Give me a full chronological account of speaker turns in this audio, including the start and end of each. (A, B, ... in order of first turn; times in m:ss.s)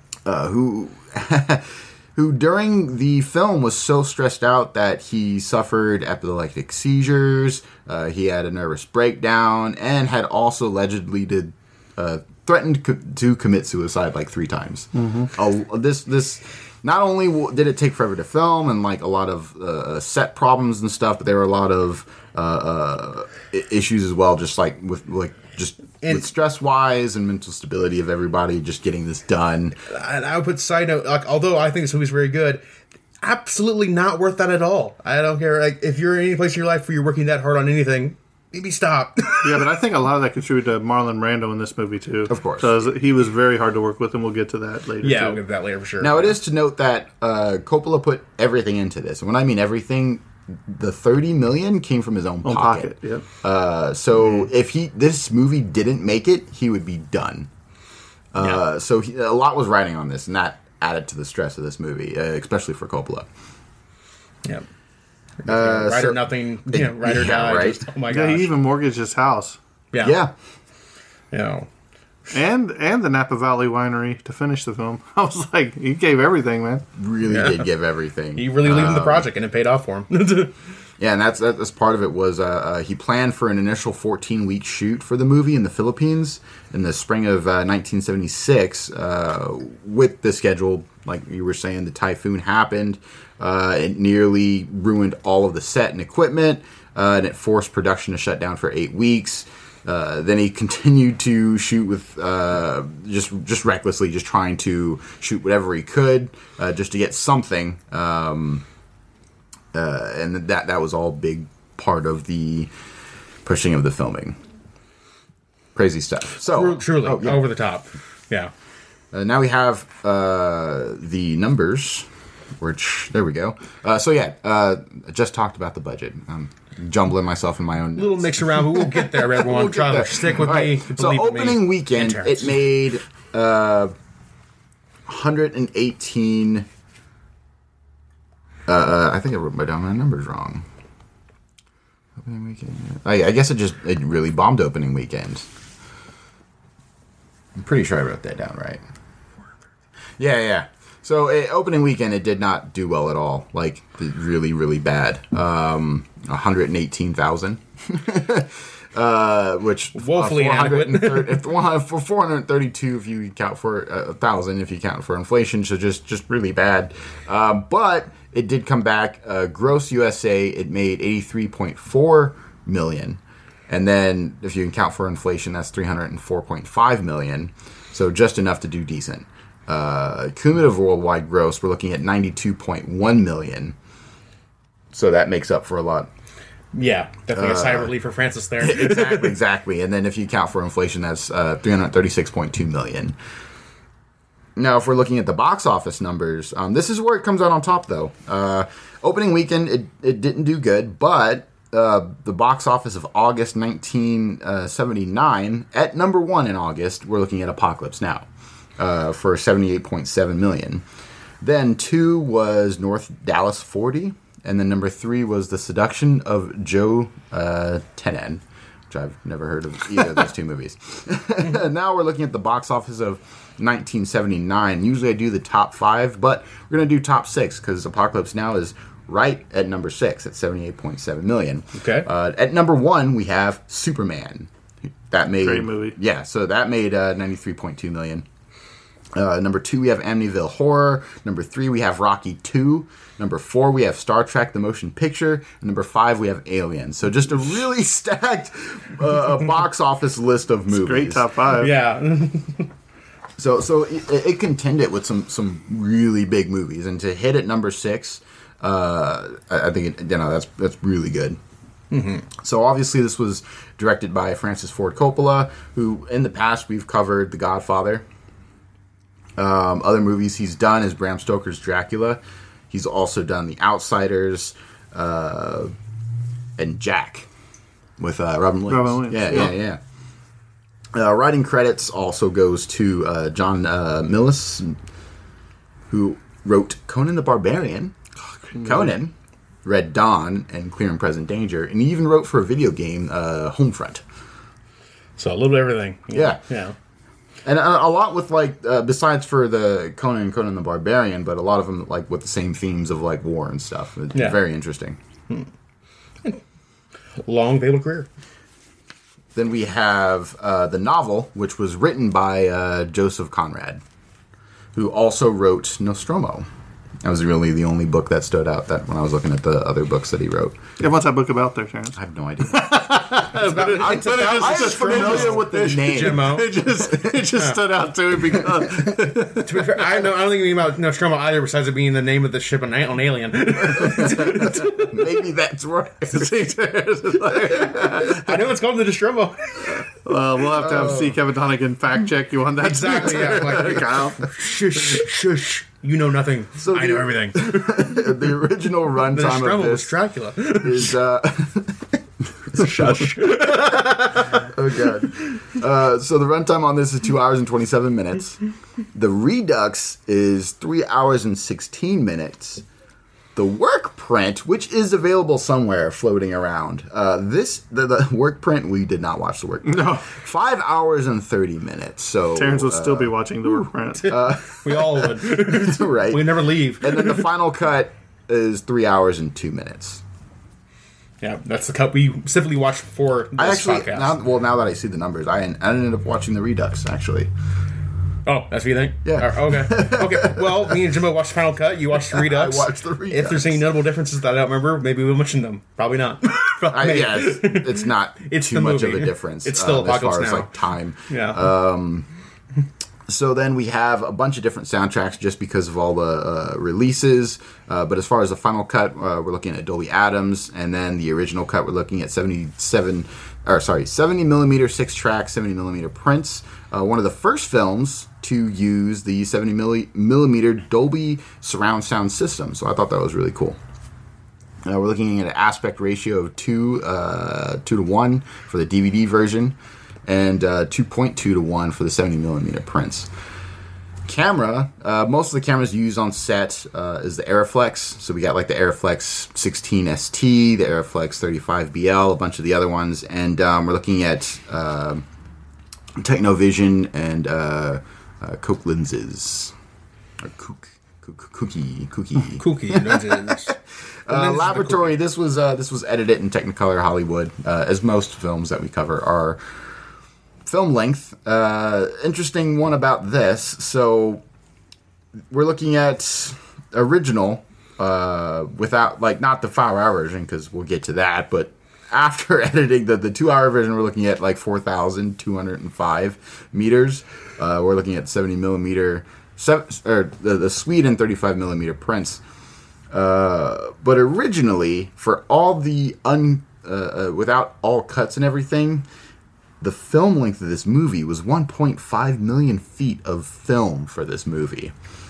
0:00.2-0:29.8 A
0:14.9-0:15.3 B
0:26.0-0:26.3 C
0:29.9-0:32.6 C
0:33.2-0:39.6 C
0:39.4-0:45.4 B
0:42.3-0:42.7 A
0:45.0-0:46.3 C
0:46.0-0:57.5 A
0:52.4-0:53.2 B
0:58.3-1:03.3 A
1:05.4-1:08.5 C
1:05.4-1:07.8 A
1:08.1-1:09.6 B
1:09.9-1:10.2 C
1:10.0-1:10.3 A
1:11.3-1:11.7 C
1:12.3-1:16.8 B
1:17.0-1:19.3 A
1:17.3-1:17.6 C
1:18.3-1:20.5 C
1:21.0-1:48.6 A
1:49.7-1:52.7 A
1:53.4-1:54.4 A
1:55.7-1:57.4 A
1:56.5-1:58.5 C
1:59.1-2:02.1 A
2:02.6-2:13.9 A
2:08.0-2:12.6 C
2:15.1-2:16.7 A
2:18.7-2:20.6 A
2:22.2-2:25.5 A
2:27.5-2:28.8 A
2:30.2-3:03.8 A
2:39.9-2:41.5 C
3:04.9-3:06.1 A
3:06.7-3:09.4 C
3:07.3-3:07.9 A
3:08.6-3:13.2 A
3:14.6-3:28.3 A
3:28.8-3:30.8 A
3:31.4-3:54.5 A
3:51.8-3:52.0 C
3:55.1-3:58.2 A
3:55.4-3:56.0 B
3:59.1-4:11.3 A
4:10.7-4:11.7 B
4:11.6-4:12.7 C
4:13.4-4:21.4 A
4:21.9-4:22.3 C
4:22.4-4:28.0 A
4:29.4-4:35.7 A
4:36.6-4:37.3 A
4:38.0-4:39.8 A
4:38.7-4:39.5 B
4:40.9-4:44.7 A
4:45.9-4:47.9 A
4:48.4-4:48.9 B
4:48.6-4:49.1 A
4:49.6-4:54.0 A
4:55.2-4:56.7 C
4:56.1-4:56.4 A
4:57.4-5:05.0 A
5:07.2-5:08.1 C
5:09.3-5:13.8 A
5:14.7-5:16.5 A
5:17.0-5:20.6 A
5:20.8-5:21.9 B
5:21.9-5:23.0 A
5:22.5-5:29.5 B
5:23.3-5:26.7 C
5:23.5-5:26.3 A
5:27.3-5:27.6 C
5:28.5-5:28.9 A
5:29.3-5:35.0 C
5:33.6-5:36.5 A
5:36.1-5:38.3 B
5:37.2-5:38.1 A
5:37.9-5:39.8 C
5:39.7-5:44.2 B
5:40.5-5:41.2 A
5:42.6-5:47.7 C
5:46.6-5:49.9 A
5:49.1-5:51.0 C
5:50.6-5:58.4 A
5:52.5-5:54.5 C
5:58.9-6:02.6 A
6:03.4-6:13.2 A
6:09.6-6:10.0 B
6:12.4-6:14.1 B
6:14.0-6:17.3 C
6:14.1-6:20.0 A
6:21.2-6:24.1 C
6:23.4-6:27.3 A
6:28.2-6:40.5 C
6:29.0-6:30.8 A
6:32.0-6:33.6 A
6:36.7-6:42.1 A
6:41.1-6:41.4 C
6:43.1-7:03.6 A
7:04.6-7:13.1 A
7:14.0-7:25.0 A
7:26.0-7:29.5 A
7:30.2-7:39.4 A
7:32.4-7:33.5 C
7:34.1-7:35.0 C
7:40.4-7:44.2 A
7:45.3-8:02.2 A
8:02.9-8:08.8 A
8:09.6-8:14.7 A